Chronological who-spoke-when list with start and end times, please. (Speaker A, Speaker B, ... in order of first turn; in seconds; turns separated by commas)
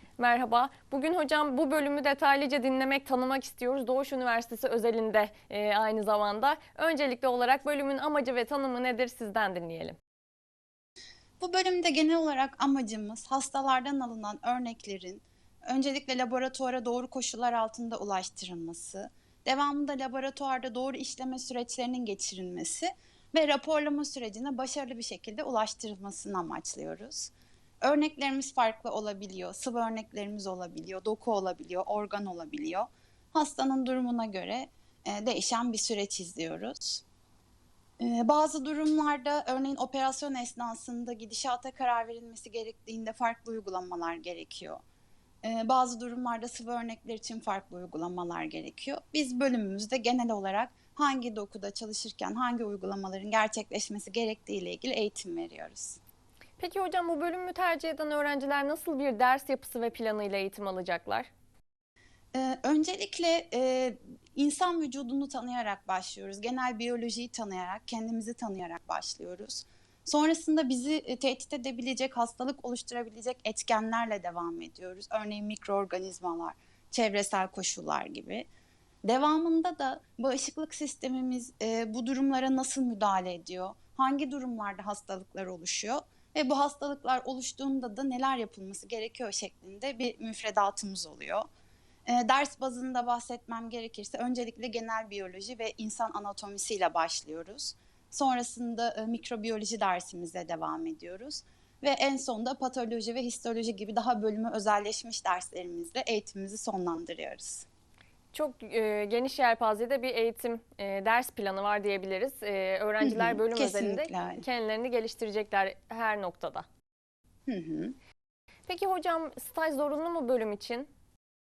Speaker A: 0.2-10.0, Speaker B: 11.4-37.0, Speaker B: 38.0-44.8, Speaker B: 45.4-56.0, Speaker A: 56.6-61.3, Speaker B: 62.3-78.5, Speaker B: 79.1-91.5, Speaker B: 92.1-107.7, Speaker A: 108.3-116.7, Speaker B: 113.0-114.5, Speaker B: 117.5-118.0, Speaker A: 118.7-120.9